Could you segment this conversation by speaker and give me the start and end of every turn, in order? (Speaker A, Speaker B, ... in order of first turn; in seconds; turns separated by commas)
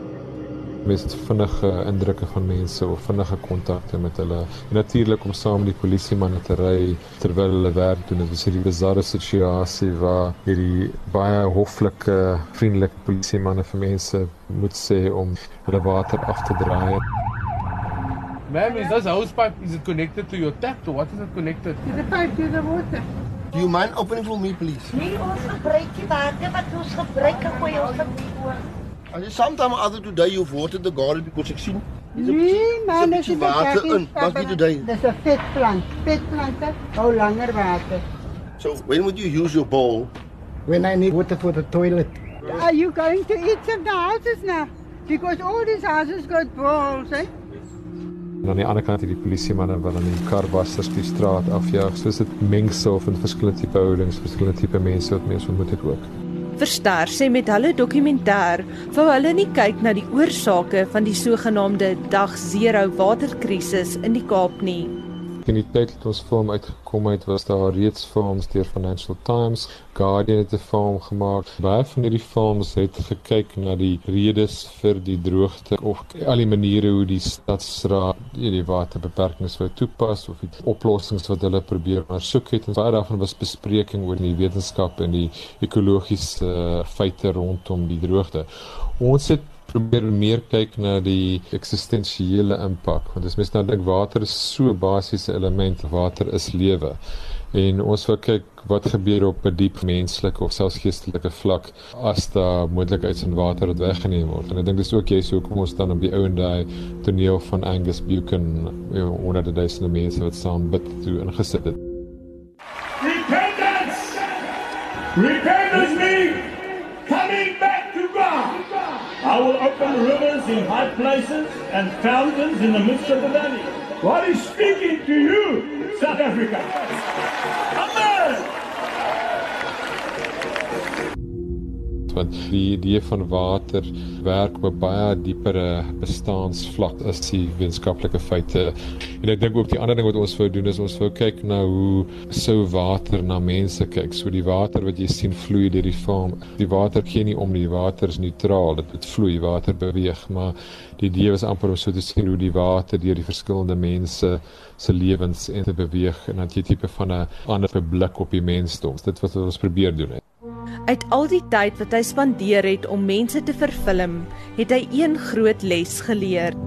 Speaker A: 0.8-17.0, Speaker B: 18.5-21.8, Speaker C: 21.9-23.1, Speaker D: 23.5-24.9, Speaker D: 29.1-34.9, Speaker C: 32.2-38.0, Speaker D: 38.6-40.1, Speaker C: 42.5-47.3, Speaker A: 48.5-56.1, Speaker E: 56.6-65.0, Speaker A: 65.4-97.0, Speaker A: 97.5-111.8, Speaker F: 113.0-114.5, Speaker F: 115.2-116.5, Speaker F: 117.1-118.7, Speaker F: 119.2-127.0, Speaker F: 127.8-128.5, Speaker A: 132.1-160.2, Speaker E: 160.9-166.6